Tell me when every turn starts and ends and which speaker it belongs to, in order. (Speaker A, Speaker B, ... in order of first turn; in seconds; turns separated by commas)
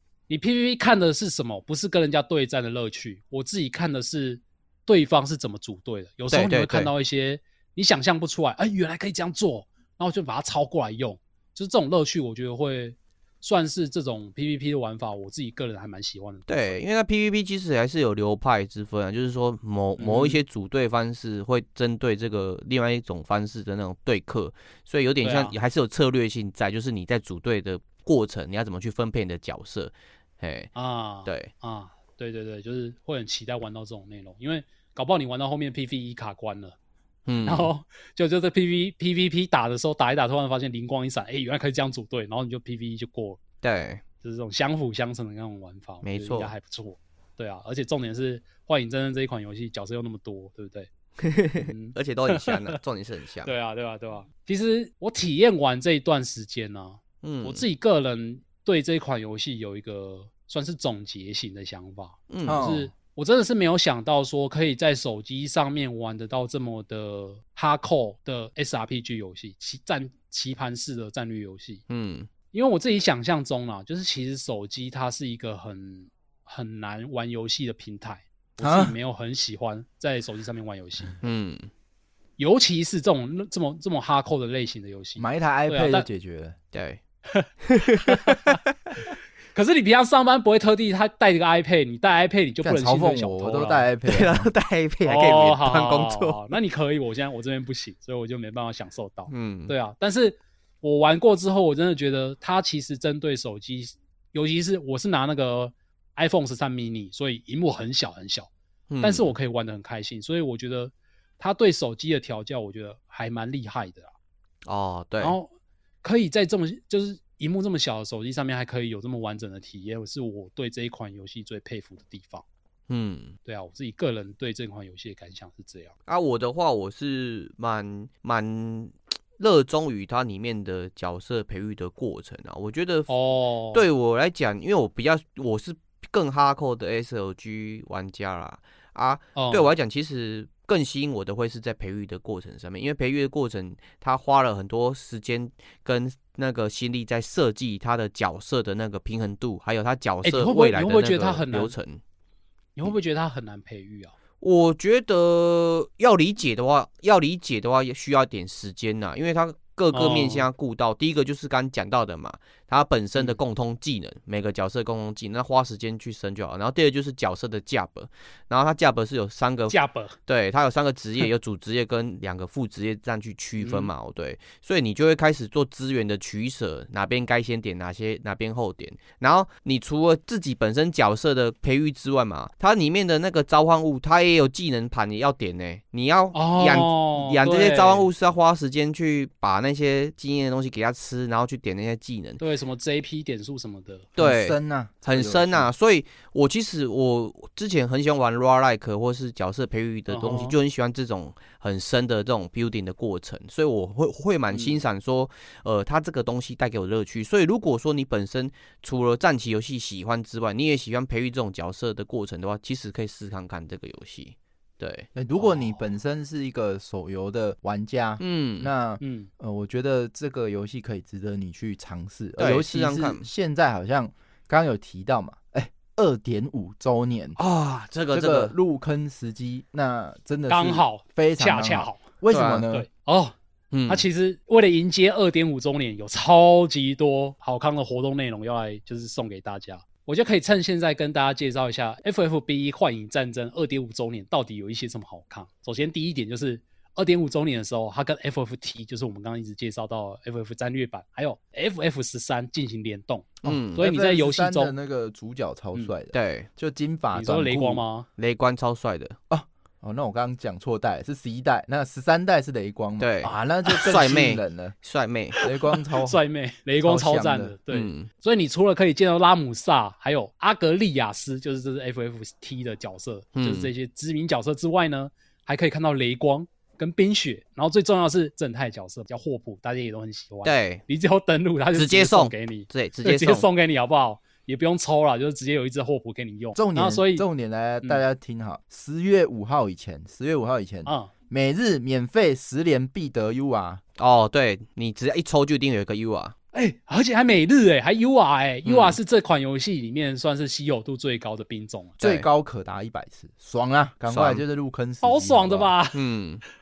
Speaker A: 0.3-16.8, Speaker B: 6.3-6.9, Speaker B: 16.5-30.7, Speaker A: 20.0-20.4, Speaker A: 25.2-25.6, Speaker A: 30.7-36.8, Speaker B: 31.2-31.5, Speaker B: 37.3-37.7, Speaker A: 37.4-43.4, Speaker B: 43.6-44.0, Speaker A: 44.2-50.9, Speaker B: 46.0-46.5, Speaker B: 51.2-53.5, Speaker A: 51.5-52.7, Speaker A: 53.4-71.8, Speaker B: 57.2-57.6, Speaker B: 62.3-62.6, Speaker C: 62.5-62.9, Speaker B: 71.9-72.3, Speaker A: 72.5-81.2, Speaker C: 78.6-79.0, Speaker B: 81.2-81.7, Speaker A: 82.4-86.0, Speaker C: 85.2-86.6, Speaker B: 86.7-87.0, Speaker A: 87.3-88.6, Speaker B: 87.7-88.4, Speaker A: 89.5-93.9, Speaker C: 92.6-94.5, Speaker B: 94.1-96.5, Speaker A: 95.0-108.5, Speaker B: 99.3-99.7, Speaker B: 108.9-109.3, Speaker A: 109.0-114.1, Speaker B: 114.6-115.3, Speaker A: 115.2-115.5, Speaker A: 116.0-122.4, Speaker B: 122.9-123.4, Speaker A: 123.4-125.9, Speaker B: 126.1-133.1, Speaker A: 133.1-133.8, Speaker B: 133.7-152.0, Speaker A: 139.3-139.7, Speaker A: 150.2-151.8, Speaker A: 152.8-154.1, Speaker B: 154.4-192.4, Speaker A: 159.9-160.4, Speaker A: 169.7-170.2, Speaker A: 173.6-173.9, Speaker A: 186.3-188.1, Speaker A: 192.4-194.1, Speaker B: 194.2-215.1, Speaker C: 194.2-195.7, Speaker A: 200.1-200.6, Speaker A: 204.5-204.8, Speaker C: 215.1-227.4, Speaker A: 215.4-215.8, Speaker B: 218.2-218.7, Speaker A: 219.0-219.3, Speaker B: 222.4-223.2, Speaker B: 227.4-228.5, Speaker C: 228.1-232.9, Speaker A: 230.5-232.0, Speaker B: 232.3-232.7, Speaker A: 232.7-233.3, Speaker B: 233.7-234.1, Speaker A: 233.9-254.7, Speaker C: 253.4-257.8, Speaker B: 253.4-253.8, Speaker B: 256.1-256.5, Speaker A: 257.1-258.1, Speaker B: 258.2-259.1, Speaker C: 259.3-264.8, Speaker B: 263.0-265.4, Speaker C: 265.4-266.2, Speaker A: 265.4-287.2, Speaker C: 266.8-267.6, Speaker B: 267.7-268.1, Speaker B: 273.4-273.7, Speaker B: 280.4-280.8, Speaker B: 281.7-283.4, Speaker C: 286.6-293.8, Speaker A: 290.9-291.1, Speaker B: 294.0-296.3, Speaker A: 296.5-302.2, Speaker B: 298.6-299.0, Speaker C: 302.0-305.7, Speaker B: 304.1-304.4, Speaker A: 305.0-306.0, Speaker B: 305.9-306.4